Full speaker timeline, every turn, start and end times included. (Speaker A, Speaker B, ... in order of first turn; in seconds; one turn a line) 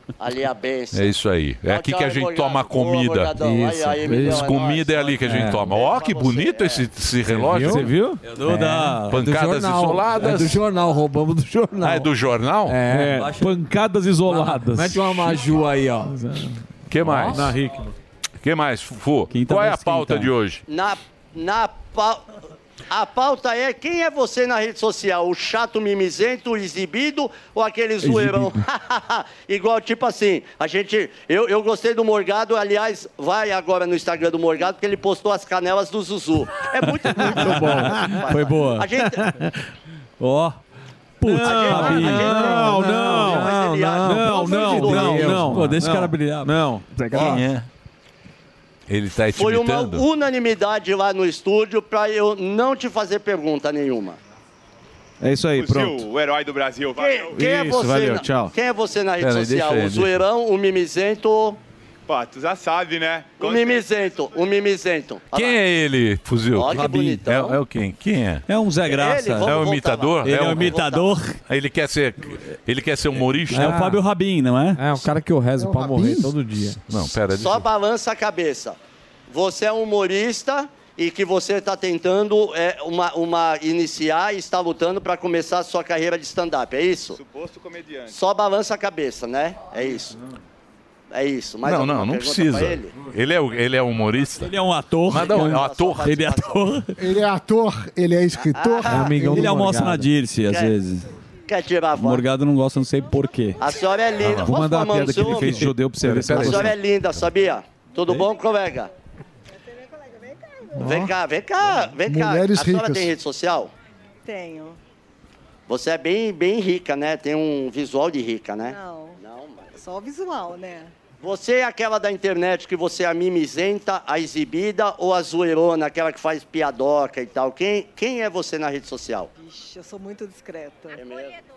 Speaker A: 0.2-1.1
Speaker B: 0.9-3.4
Speaker A: 1.7-6.9
Speaker C: 3.6-4.3
Speaker B: 4.1-7.9
Speaker C: 5.3-5.7
Speaker C: 7.3-7.9
Speaker D: 7.7-8.2
Speaker E: 8.2-9.1
Speaker C: 8.4-12.1
Speaker B: 9.1-10.6
Speaker B: 11.8-12.8
Speaker C: 12.7-13.3
Speaker D: 12.9-15.3
Speaker E: 13.0-13.6
Speaker C: 14.3-16.2
Speaker B: 16.9-17.5
Speaker C: 17.1-17.5
Speaker D: 17.4-17.8
Speaker B: 18.4-20.6
Speaker E: 19.3-20.3
Speaker A: 20.7-22.2
Speaker A: 22.9-39.3
Speaker E: 38.3-38.9
Speaker E: 40.2-40.6
Speaker E: 41.2-43.5
Speaker D: 41.3-47.4
Speaker A: 41.4-45.5
Speaker C: 42.1-43.5
Speaker E: 44.0-47.4
Speaker C: 44.2-45.8
Speaker B: 47.1-47.6
Speaker B: 48.9-50.0
Speaker A: 49.3-54.2
Speaker D: 55.2-56.0
Speaker F: 55.5-57.5
Speaker A: 57.0-61.6
Speaker D: 57.4-58.5
Speaker B: 59.2-60.1
Speaker F: 62.1-63.8
Speaker A: 63.4-65.6
Speaker B: 65.3-68.4
Speaker A: 66.5-67.6
Speaker E: 66.7-67.2
Speaker E: 68.5-69.7
Speaker A: 68.8-71.2
Speaker B: 69.4-70.8
Speaker E: 70.2-71.4
Speaker B: 71.5-73.8
Speaker E: 73.5-74.8
Speaker C: 73.5-74.0
Speaker C: 74.8-76.8
Speaker G: 75.6-76.3
Speaker B: 76.9-77.7
Speaker A: 77.3-78.8
Speaker A: 79.3-87.2
Speaker F: 87.2-88.2
Speaker A: 88.1-90.2
Speaker A: 91.1-92.9
Speaker B: 91.6-94.5
Speaker E: 94.4-96.9
Speaker B: 95.1-96.2
Speaker A: 95.1-96.8
Speaker G: 97.0-99.6
Speaker A: 98.4-99.2
Speaker C: 98.9-100.1
Speaker E: 99.2-101.0
Speaker A: 100.5-100.8
Speaker A: 101.5-102.3
Speaker E: 102.0-103.6
Speaker A: 103.6-105.7
Speaker B: 104.2-104.5
Speaker D: 104.5-106.7
Speaker E: 104.6-106.5
Speaker B: 106.0-106.7
Speaker A: 106.3-108.9
Speaker H: 109.5-110.8
Speaker G: 110.8-111.1
Speaker A: 110.8-113.7
Speaker G: 112.1-113.1
Speaker H: 114.2-114.8
Speaker A: 115.7-119.8
Speaker H: 118.7-119.2
Speaker H: 119.8-120.9
Speaker A: 121.2-129.3
Speaker H: 129.4-131.0
Speaker A: 130.9-131.4